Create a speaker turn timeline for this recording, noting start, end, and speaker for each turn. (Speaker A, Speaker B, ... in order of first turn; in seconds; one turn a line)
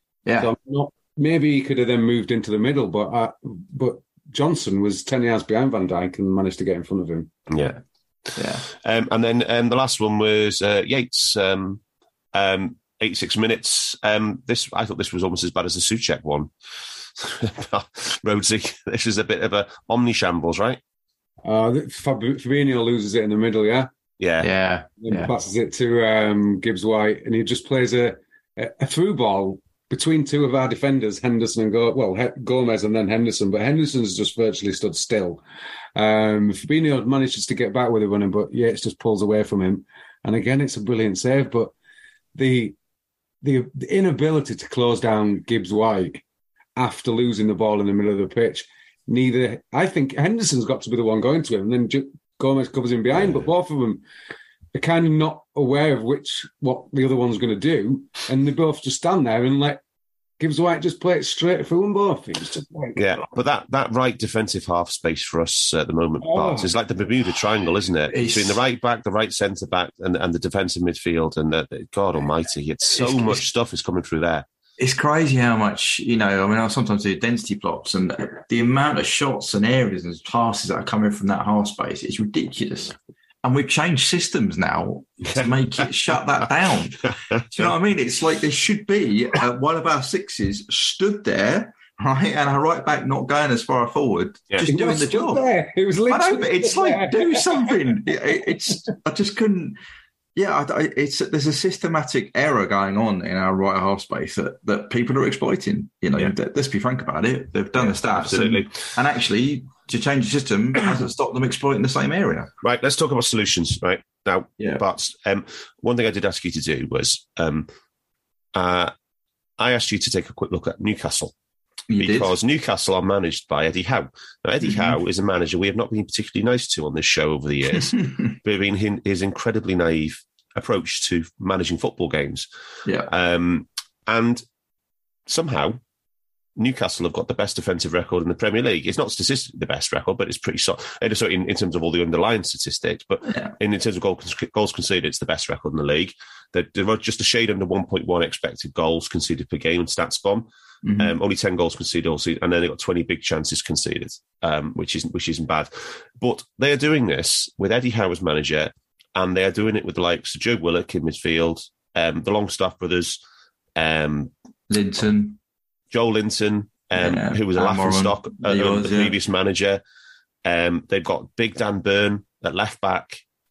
Speaker A: 0.2-0.5
Speaker B: 0.4-7.3
Speaker C: 7.5-7.8
Speaker A: 8.3-8.7
Speaker C: 8.7-11.8
Speaker C: 12.3-16.5
Speaker C: 17.1-20.8
Speaker B: 21.4-23.9
Speaker C: 24.2-24.5
Speaker A: 24.4-25.3
Speaker B: 25.0-35.4
Speaker B: 36.0-41.7
Speaker B: 42.3-42.8
Speaker B: 43.4-46.2
Speaker B: 46.8-54.0
Speaker B: 54.7-59.8
Speaker B: 60.4-63.2
Speaker C: 63.0-74.5
Speaker B: 66.2-66.7
Speaker A: 68.1-68.6
Speaker A: 72.9-73.4
Speaker A: 74.8-95.5
Speaker B: 94.6-98.8
Speaker A: 96.1-99.8
Speaker A: 100.3-112.5
Speaker C: 107.8-108.7
Speaker C: 112.6-117.7
Speaker C: 118.5-118.9
Speaker C: 119.6-121.3
Speaker A: 121.9-122.3
Speaker C: 122.0-132.5
Speaker A: 124.6-124.9
Speaker A: 132.8-133.1
Speaker C: 133.1-134.4
Speaker C: 135.3-135.8
Speaker C: 136.6-150.5
Speaker A: 150.8-151.2
Speaker C: 151.0-163.2
Speaker C: 163.8-164.3
Speaker A: 164.7-165.4
Speaker C: 165.9-169.8
Speaker A: 166.9-169.2
Speaker C: 170.4-173.2